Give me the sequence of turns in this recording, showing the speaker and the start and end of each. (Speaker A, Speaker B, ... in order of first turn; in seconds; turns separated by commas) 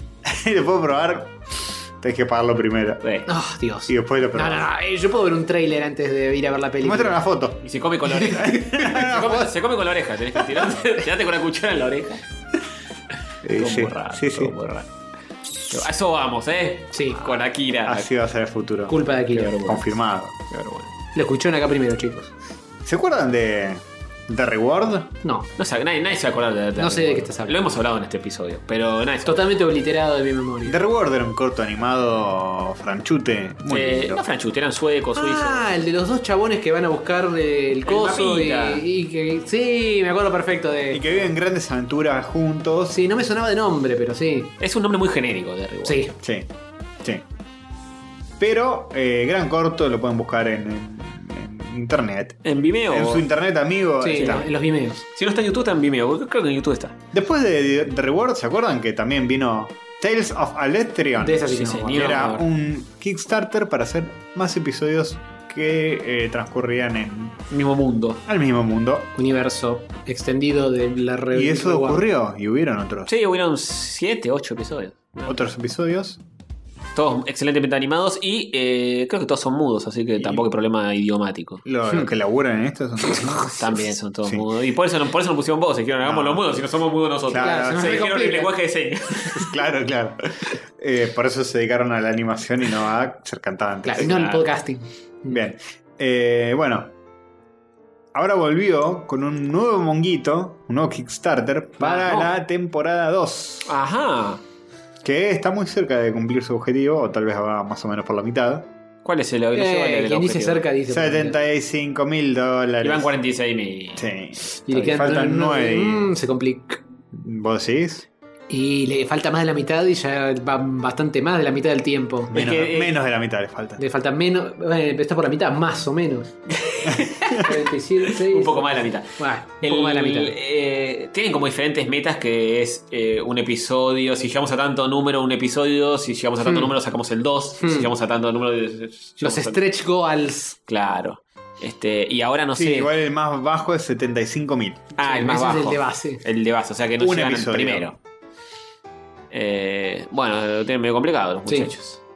Speaker A: 0.2-1.4, Speaker A: 2.0-3.0, Speaker B: 3.0-3.3, Speaker C: 3.3-7.2, Speaker A: 3.9-4.7, Speaker A: 6.8-7.7, Speaker B: 7.6-12.2, Speaker C: 8.2-8.5, Speaker A: 8.2-9.5, Speaker A: 13.4-14.6, Speaker B: 13.6-14.9, Speaker B: 15.7-18.1, Speaker C: 16.9-17.3, Speaker A: 17.9-18.9, Speaker C: 18.9-19.6, Speaker B: 19.3-20.0, Speaker A: 19.6-20.3, Speaker B: 20.5-20.9, Speaker C: 21.1-22.3, Speaker A: 22.9-25.1, Speaker C: 25.2-25.5, Speaker B: 25.6-29.4, Speaker C: 26.8-27.6, Speaker C: 29.2-30.8, Speaker A: 30.7-34.2, Speaker B: 33.7-35.7, Speaker C: 35.1-41.3, Speaker B: 37.9-38.9, Speaker A: 40.9-43.0, Speaker C: 42.9-44.5, Speaker B: 44.6-46.0, Speaker C: 45.9-46.1, Speaker A: 46.2-46.5, Speaker A: 48.4-54.5, Speaker B: 52.5-53.3, Speaker C: 54.0-55.0, Speaker B: 54.2-54.5, Speaker B: 55.1-57.0, Speaker A: 57.1-67.4, Speaker C: 61.2-62.3, Speaker B: 61.6-62.5, Speaker B: 67.5-68.2, Speaker A: 68.3-69.1, Speaker C: 69.2-72.1, Speaker A: 71.3-73.1, Speaker B: 73.1-75.4, Speaker A: 75.3-76.2, Speaker B: 77.0-81.6, Speaker A: 80.2-80.5, Speaker A: 81.7-83.5, Speaker B: 83.5-89.5, Speaker A: 86.0-86.5, Speaker A: 87.3-88.0, Speaker C: 87.4-88.5, Speaker A: 89.3-90.2, Speaker A: 90.8-94.1, Speaker C: 93.8-95.4, Speaker B: 94.0-94.5, Speaker A: 95.3-96.9, Speaker A: 98.1-103.8, Speaker B: 101.8-102.3, Speaker B: 103.7-104.4, Speaker A: 105.0-108.7, Speaker B: 109.0-110.7, Speaker C: 109.5-111.4, Speaker A: 110.9-113.1, Speaker B: 112.8-114.1, Speaker A: 114.0-116.1, Speaker C: 114.7-116.8, Speaker A: 117.1-118.1, Speaker C: 118.5-122.3, Speaker B: 122.3-123.0, Speaker A: 122.3-123.8, Speaker C: 123.8-130.3, Speaker B: 126.7-127.5, Speaker B: 128.1-139.6, Speaker C: 136.4-136.7, Speaker C: 137.6-137.9, Speaker C: 139.2-140.6, Speaker B: 140.7-142.9, Speaker A: 142.6-144.8, Speaker B: 145.0-148.0, Speaker C: 145.0-146.2, Speaker A: 147.0-147.9, Speaker B: 149.3-152.0, Speaker C: 151.5-151.7